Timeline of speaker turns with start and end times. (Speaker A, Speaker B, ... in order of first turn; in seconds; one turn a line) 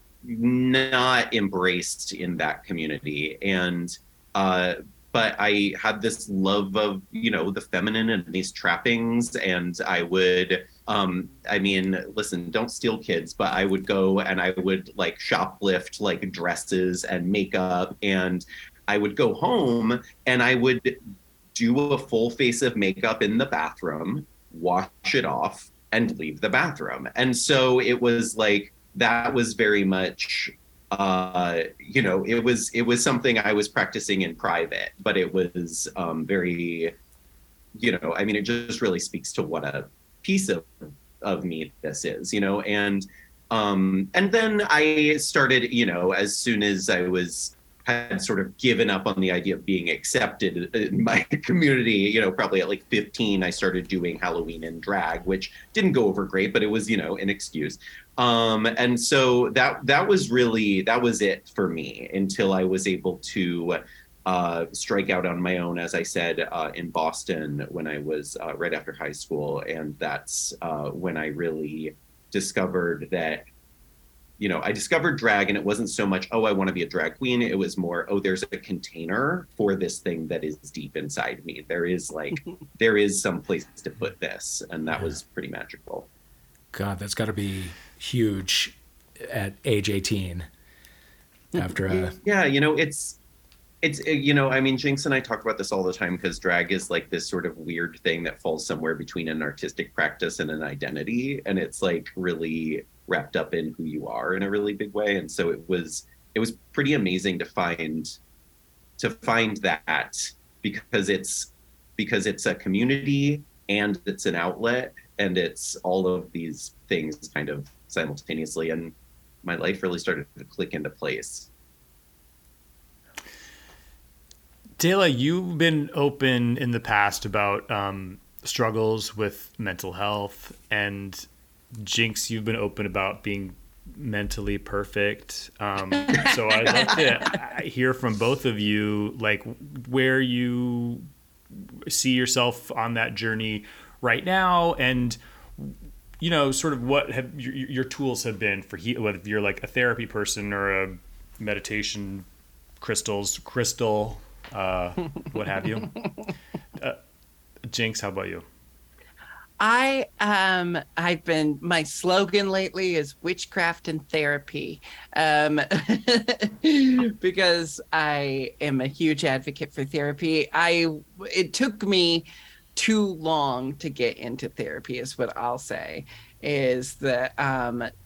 Speaker A: 0.2-21.0
Speaker A: 21.5-36.9
Speaker A: 37.8-73.5
Speaker A: 74.4-86.1
Speaker B: 86.7-90.5
Speaker B: 91.5-92.2
Speaker A: 92.2-93.2
Speaker A: 93.8-108.2
Speaker A: 109.0-121.5
Speaker C: 124.8-131.3
Speaker C: 131.8-152.2
Speaker D: 136.1-137.0
Speaker C: 152.8-156.0
Speaker C: 157.7-158.4
Speaker D: 159.6-177.9